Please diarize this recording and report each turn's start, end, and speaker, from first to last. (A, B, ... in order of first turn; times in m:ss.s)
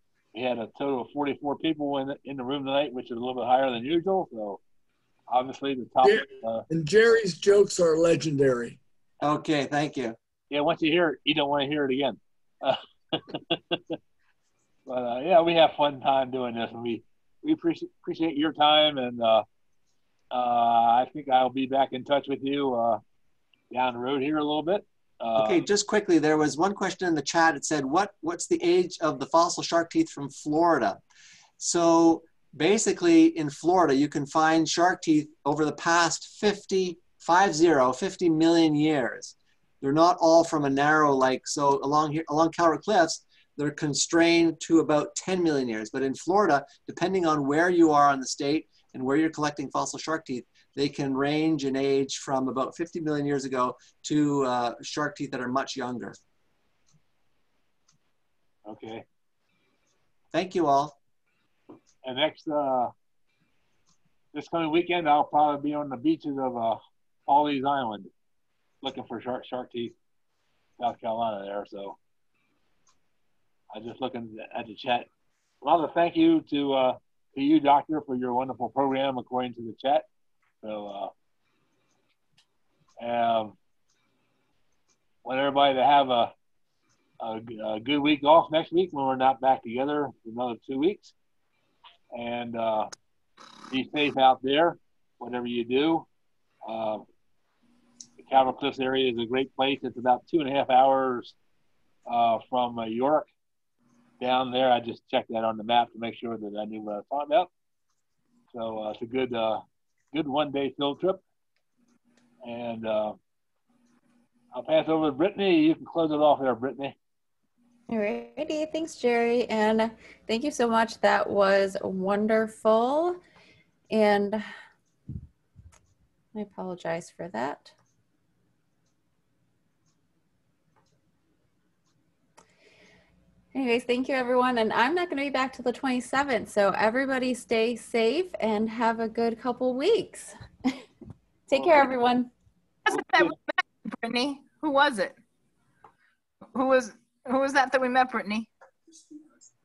0:00.3-0:04.6 A
0:05.3-0:06.6 A
0:06.0-0:08.8 B
0:09.2-0:10.2 C
0:10.5-0:14.0 A
0:14.8-0:19.4 A
0:20.3-0:23.0 A
0:23.7-0:25.6 A
0:25.4-0:31.0 C
0:31.6-0:56.2 C
0:58.6-0:59.0 A
1:00.3-1:01.0 C
1:02.0-1:02.9 A
1:04.3-1:08.1 A
1:08.8-1:09.9 A
1:10.8-1:12.0 A
1:13.7-1:15.1 A
1:15.6-1:20.0 A
1:20.6-1:21.1 A
1:23.0-1:23.6 A
1:25.2-1:26.3 A
1:27.2-1:31.1 A
1:32.1-1:32.9 A
1:33.7-1:36.1 A
1:36.6-1:37.0 A
1:38.2-1:41.4 A
1:42.1-1:43.3 A
1:44.2-1:47.5 A
1:48.5-1:51.2 A
1:52.4-1:53.2 A
1:54.5-1:57.0 A
1:57.9-2:03.2 D
2:03.9-2:04.4 D
2:06.3-2:07.7 D
2:13.5-2:20.3 D
2:21.5-2:22.3 D
2:22.9-2:25.2 E
2:22.9-2:23.3 A
2:26.5-2:28.5 E